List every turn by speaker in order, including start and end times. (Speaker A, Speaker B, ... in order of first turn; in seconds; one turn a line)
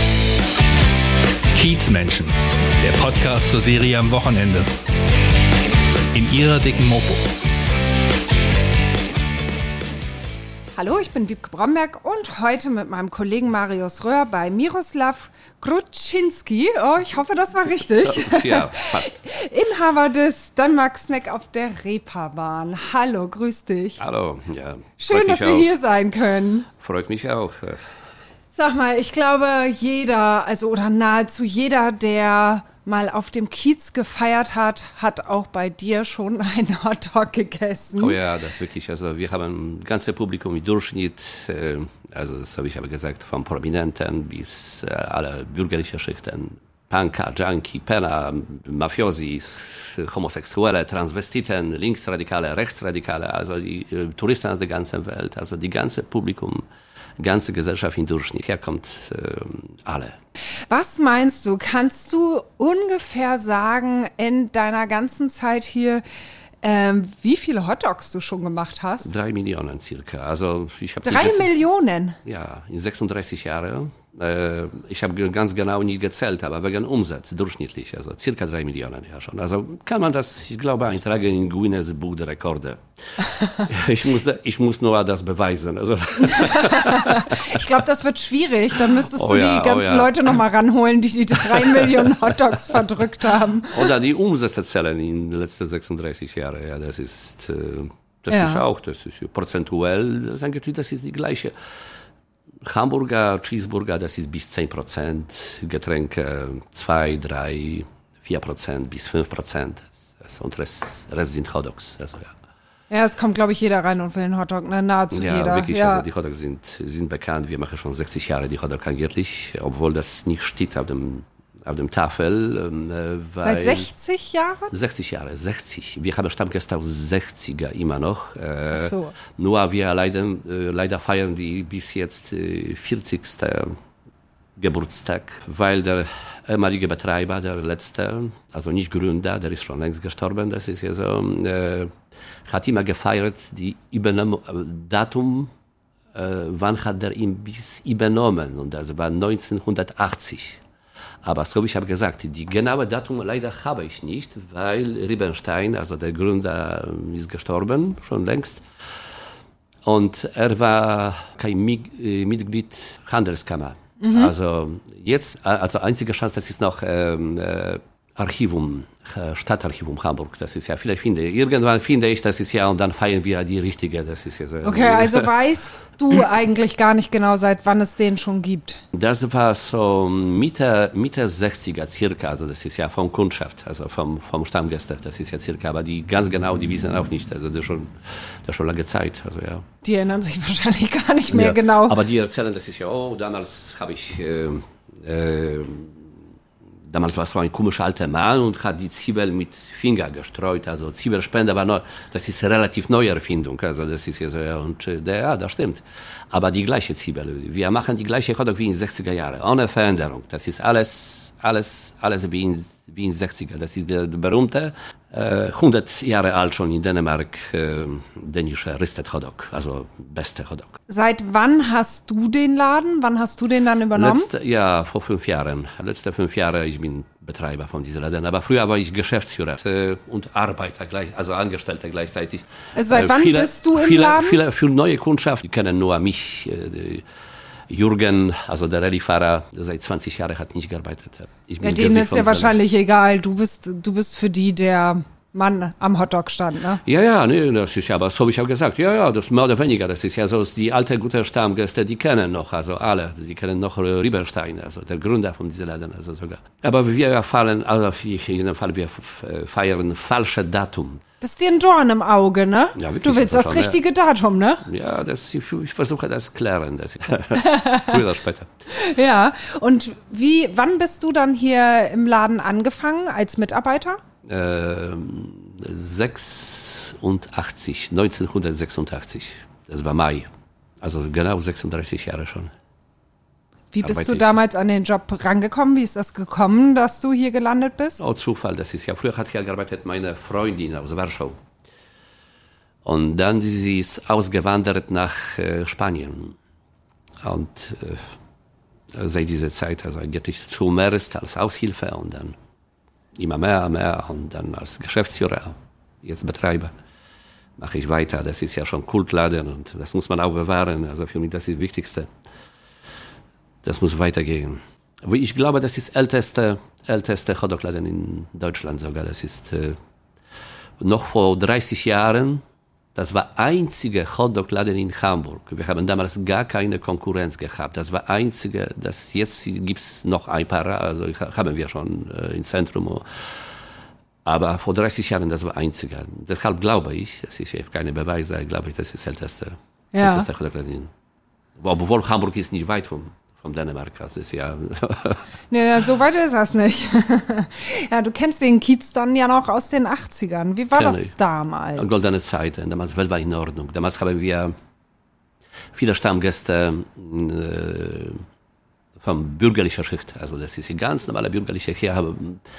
Speaker A: 1.5-4.7
Speaker A: 6.1-7.3
Speaker B: 10.7-24.0
Speaker C: 18.0-19.2
Speaker C: 24.0-25.7
Speaker B: 25.0-26.7
Speaker C: 26.8-27.8
Speaker B: 28.5-38.2
Speaker C: 38.0-56.6
Speaker C: 57.2-60.2
Speaker B: 60.7-66.0
Speaker B: 66.6-69.1
Speaker C: 69.0-71.5
Speaker B: 71.0-72.2
Speaker C: 72.2-87.7
Speaker B: 86.3-93.9
Speaker C: 88.9-90.1
Speaker C: 91.5-92.1
Speaker C: 93.7-101.5
Speaker B: 98.3-98.6
Speaker C: 102.6-112.3
Speaker B: 112.9-116.0
Speaker C: 115.1-123.9
Speaker B: 123.4-124.7
Speaker C: 124.7-133.8
Speaker B: 128.7-129.1
Speaker C: 134.6-141.9
Speaker C: 142.5-145.5
Speaker C: 146.1-150.6
Speaker C: 151.2-158.6
Speaker C: 159.8-175.3
Speaker B: 164.0-164.3
Speaker B: 174.6-178.8
Speaker C: 178.9-189.7
Speaker B: 189.8-192.0
Speaker C: 191.3-196.1
Speaker C: 196.9-220.8
Speaker B: 220.9-224.3
Speaker C: 223.9-237.1
Speaker B: 232.7-234.4
Speaker C: 237.7-242.5
Speaker B: 241.6-246.8
Speaker C: 246.8-261.0
Speaker B: 261.2-264.6
Speaker C: 262.8-263.8
Speaker C: 264.6-268.5
Speaker B: 267.3-268.0
Speaker B: 268.7-274.0
Speaker C: 274.2-280.3
Speaker C: 280.8-282.5
Speaker B: 283.7-288.0
Speaker C: 283.8-284.3
Speaker C: 288.0-291.4
Speaker C: 292.8-296.4
Speaker C: 297.2-298.1
Speaker C: 298.9-302.4
Speaker C: 303.2-306.7
Speaker C: 307.6-312.1
Speaker C: 313.6-319.8
Speaker C: 320.8-322.4
Speaker C: 322.9-333.3
Speaker C: 334.2-340.9
Speaker B: 339.9-340.3
Speaker C: 341.6-345.2
Speaker B: 345.5-352.1
Speaker C: 350.7-351.1
Speaker C: 351.7-354.5
Speaker C: 355.7-358.2
Speaker C: 359.0-362.4